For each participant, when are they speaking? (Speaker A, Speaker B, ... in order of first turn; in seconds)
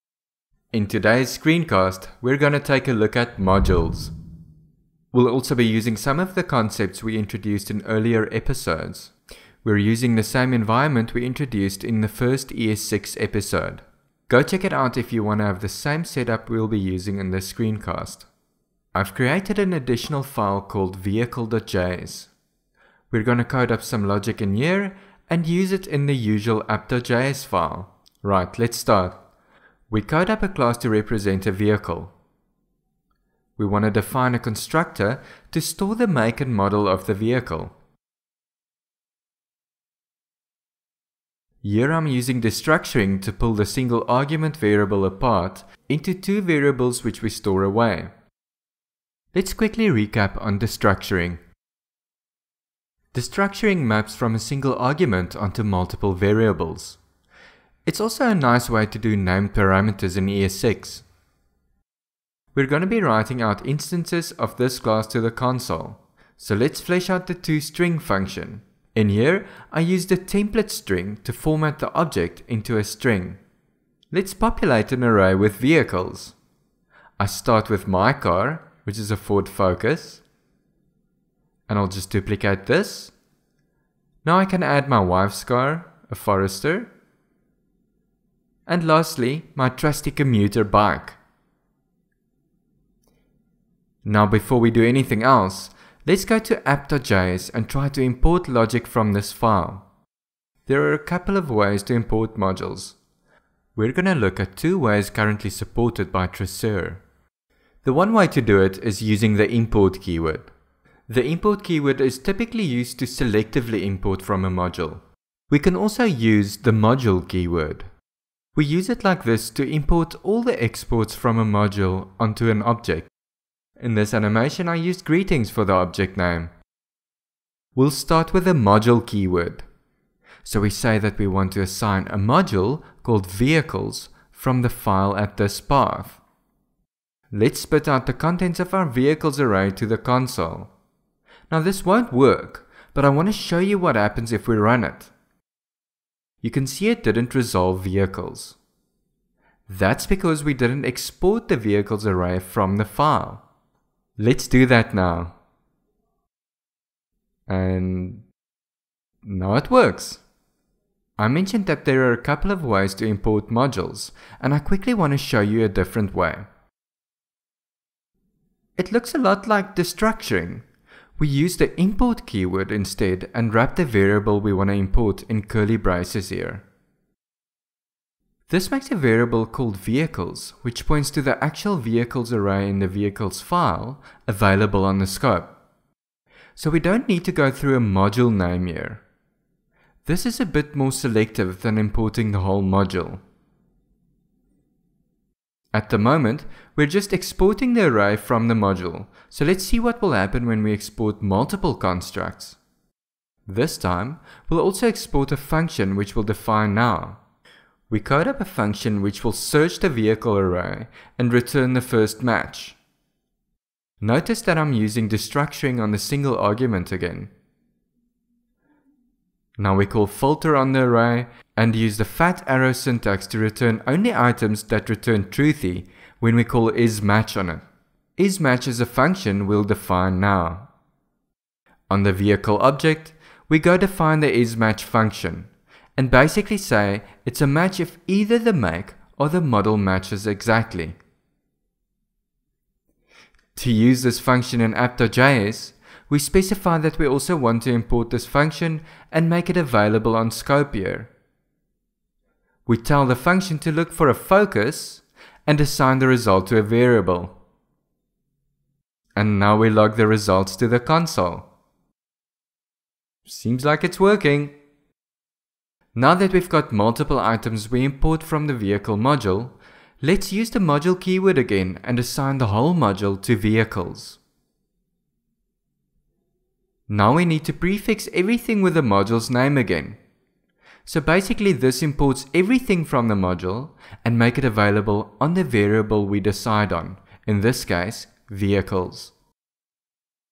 Speaker A: 0.7-4.1, 5.1-18.3, 18.9-22.3, 23.1-29.2, 29.9-32.1, 33.6-37.8, 41.6-48.1, 49.3-51.4, 53.1-57.0, 57.9-61.0, 62.5-73.4, 74.1-76.4, 77.2-80.2, 81.7-83.2, 84.2-86.9, 88.7-91.2, 94.0-99.8, 100.7-103.0, 103.8-107.0, 107.8-110.5, 111.1-117.9, 118.5-123.1, 123.8-126.5, 127.8-129.7, 130.4-136.2, 137.3-140.7, 141.5-145.1, 146.4-148.6, 149.7-153.4, 154.2-155.4, 157.5-158.3, 159.2-160.2, 161.2-166.5, 168.8-170.7, 171.2-176.7, 178.5-185.6, 186.6-189.0, 190.1-193.2, 195.7-202.6, 203.5-207.2, 207.9-212.8, 214.0-217.3, 219.6-227.7, 228.2-230.7, 231.9-241.0, 243.6-251.1, 252.7-257.4, 259.2-261.5, 263.2-264.6, 265.9-274.2, 276.9-280.0, 280.9-289.1